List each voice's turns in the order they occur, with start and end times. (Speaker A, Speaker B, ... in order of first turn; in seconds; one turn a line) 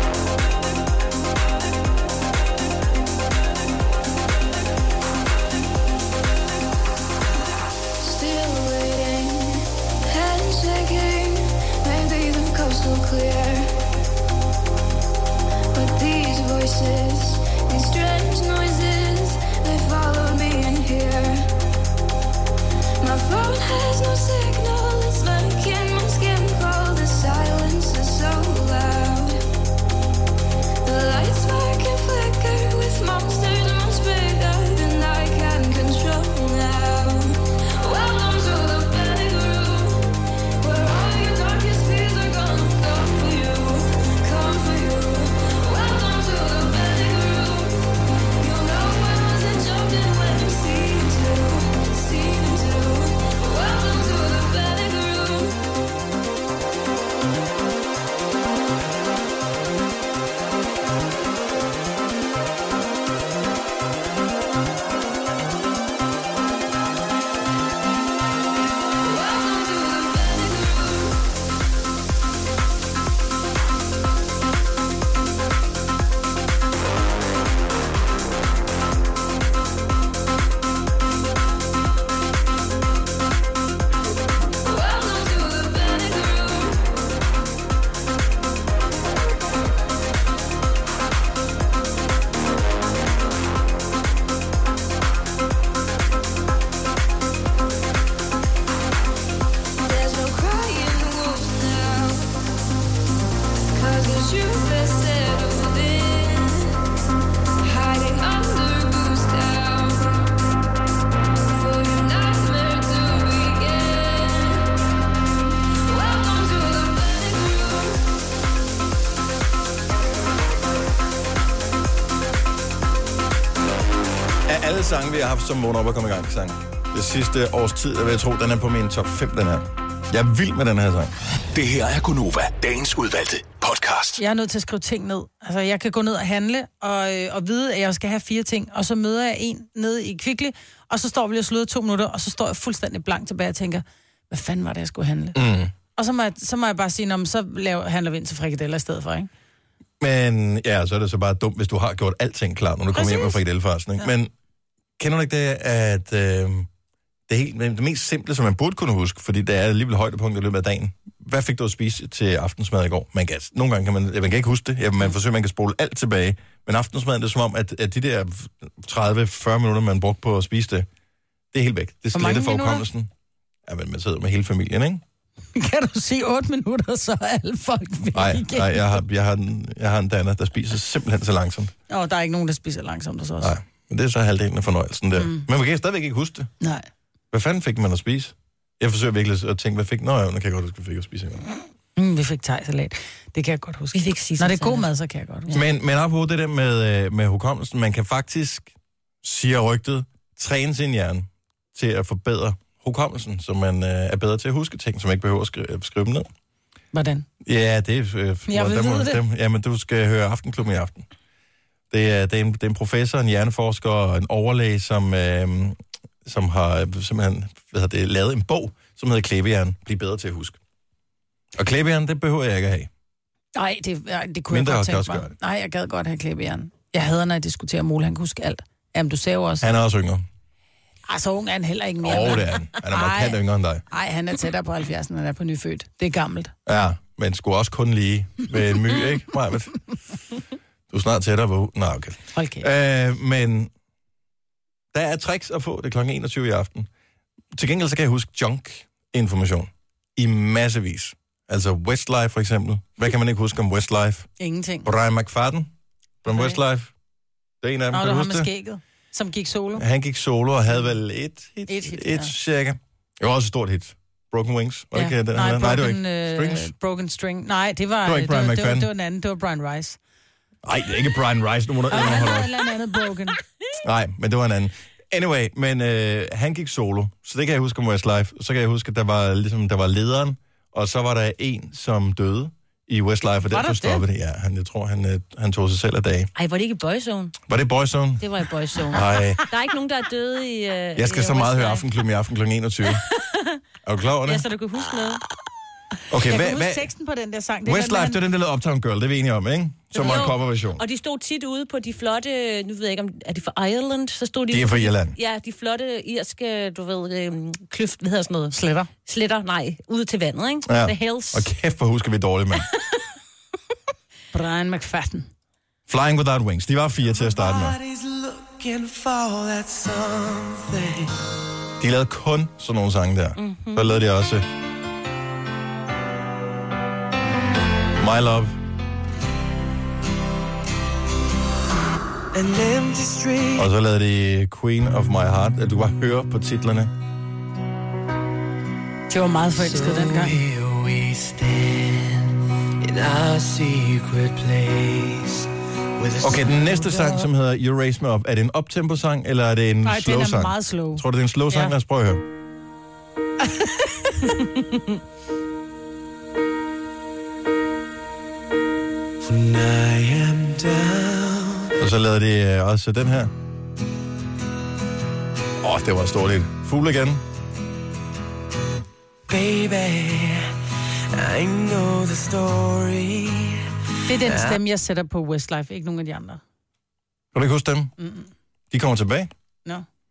Speaker A: 8.0-13.7
Speaker A: 15.7-21.5
Speaker A: 23.0-29.4
Speaker A: 30.8-55.6
Speaker A: 69.0-71.2
Speaker A: 84.6-86.9
Speaker A: 99.8-102.3
Speaker A: 103.8-106.8
Speaker A: 107.6-110.2
Speaker A: 111.5-114.7
Speaker A: 115.8-118.1
Speaker B: 124.5-131.1
Speaker C: 131.5-134.2
Speaker D: 134.2-145.4
Speaker B: 145.3-145.7
Speaker D: 145.9-149.3
Speaker B: 150.0-154.3
Speaker D: 152.9-153.4
Speaker B: 155.0-156.7
Speaker B: 157.3-170.9
Speaker B: 171.5-173.1
Speaker D: 172.1-172.8
Speaker B: 173.7-175.0
Speaker D: 175.5-179.0
Speaker B: 178.1-181.7
Speaker D: 181.9-183.5
Speaker B: 183.4-186.5
Speaker D: 185.2-185.5
Speaker D: 186.6-186.8
Speaker B: 187.3-191.4
Speaker D: 192.0-195.5
Speaker E: 193.9-194.9
Speaker B: 195.5-198.7
Speaker B: 199.2-206.3
Speaker D: 206.9-207.3
Speaker B: 207.4-211.1
Speaker D: 208.5-209.2
Speaker B: 211.9-220.6
Speaker B: 221.6-222.9
Speaker D: 223.6-229.7
Speaker B: 224.5-225.3
Speaker B: 229.6-230.2
Speaker D: 231.1-236.5
Speaker B: 232.0-233.8
Speaker B: 236.7-239.8
Speaker B: 240.9-243.7
Speaker D: 242.3-242.7
Speaker B: 244.9-246.9
Speaker B: 247.5-254.3
Speaker D: 254.4-254.9
Speaker B: 254.8-255.7
Speaker D: 256.2-256.6
Speaker B: 256.2-256.9
Speaker B: 257.6-258.5
Speaker D: 257.9-259.8
Speaker B: 259.8-266.7
Speaker D: 261.7-262.3
Speaker D: 264.9-270.0
Speaker B: 268.0-268.9
Speaker B: 270.6-272.5
Speaker D: 271.9-273.4
Speaker B: 273.8-286.3
Speaker D: 283.5-284.0
Speaker E: 286.4-287.4
Speaker B: 287.5-288.2
Speaker E: 288.2-291.8
Speaker B: 288.9-289.4
Speaker B: 290.9-293.0
Speaker E: 293.1-293.6
Speaker B: 293.8-294.4
Speaker E: 294.2-295.2
Speaker B: 296.1-296.9
Speaker D: 296.2-298.2
Speaker B: 297.6-300.8
Speaker D: 299.9-300.2
Speaker E: 299.9-311.5
Speaker B: 304.5-305.1
Speaker D: 308.5-308.9
Speaker B: 310.6-312.7
Speaker D: 314.3-315.3
Speaker B: 315.9-317.8
Speaker F: 317.0-321.2
Speaker B: 321.8-324.4
Speaker E: 323.4-324.0
Speaker B: 328.0-328.6
Speaker F: 332.3-333.7
Speaker B: 333.6-336.9
Speaker D: 339.1-340.4
Speaker F: 339.5-347.3
Speaker B: 346.2-352.2
Speaker D: 349.8-351.7
Speaker F: 359.2-361.7
Speaker B: 361.8-363.3
Speaker B: 365.6-367.2
Speaker F: 369.3-370.5
Speaker F: 371.1-374.6
Speaker D: 374.1-376.4
Speaker B: 377.3-377.9
Speaker D: 378.0-378.3
Speaker B: 378.7-379.3